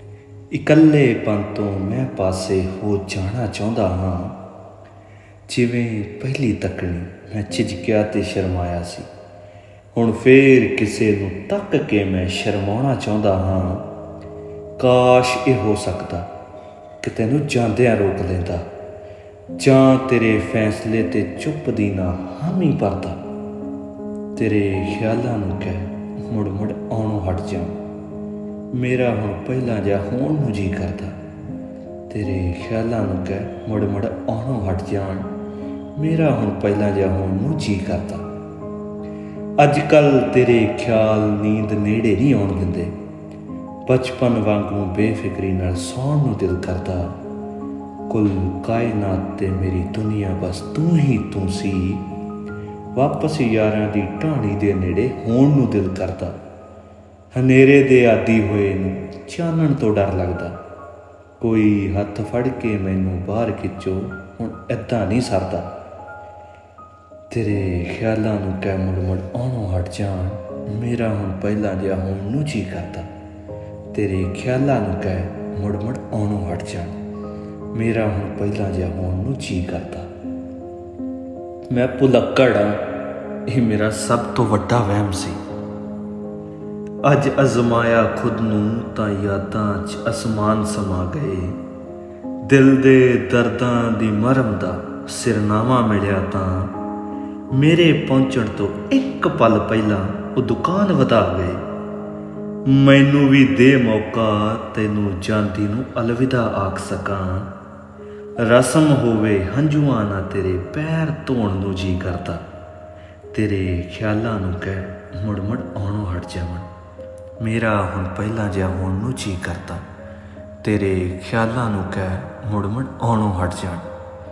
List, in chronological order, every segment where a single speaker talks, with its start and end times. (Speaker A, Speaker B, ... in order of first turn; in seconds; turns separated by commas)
Speaker A: 0.5-4.4, Speaker A: 5.5-9.1, Speaker A: 9.9-13.9, Speaker A: 14.8-16.3, Speaker A: 17.0-18.6, Speaker A: 19.6-23.2, Speaker A: 24.3-27.7, Speaker A: 28.7-31.1, Speaker A: 32.1-35.3, Speaker A: 36.0-38.2, Speaker A: 39.6-42.9, Speaker A: 43.9-47.2, Speaker A: 48.1-52.0, Speaker A: 52.9-56.4, Speaker A: 57.3-60.6, Speaker A: 61.4-65.7, Speaker A: 67.3-73.1, Speaker A: 73.9-77.0, Speaker A: 77.7-80.1, Speaker A: 81.7-82.8, Speaker A: 83.5-85.4, Speaker A: 87.0-91.6, Speaker A: 92.4-96.7, Speaker A: 97.5-101.6, Speaker A: 102.7-107.5, Speaker A: 108.4-112.4, Speaker A: 113.3-116.7, Speaker A: 117.4-119.8, Speaker A: 120.6-123.9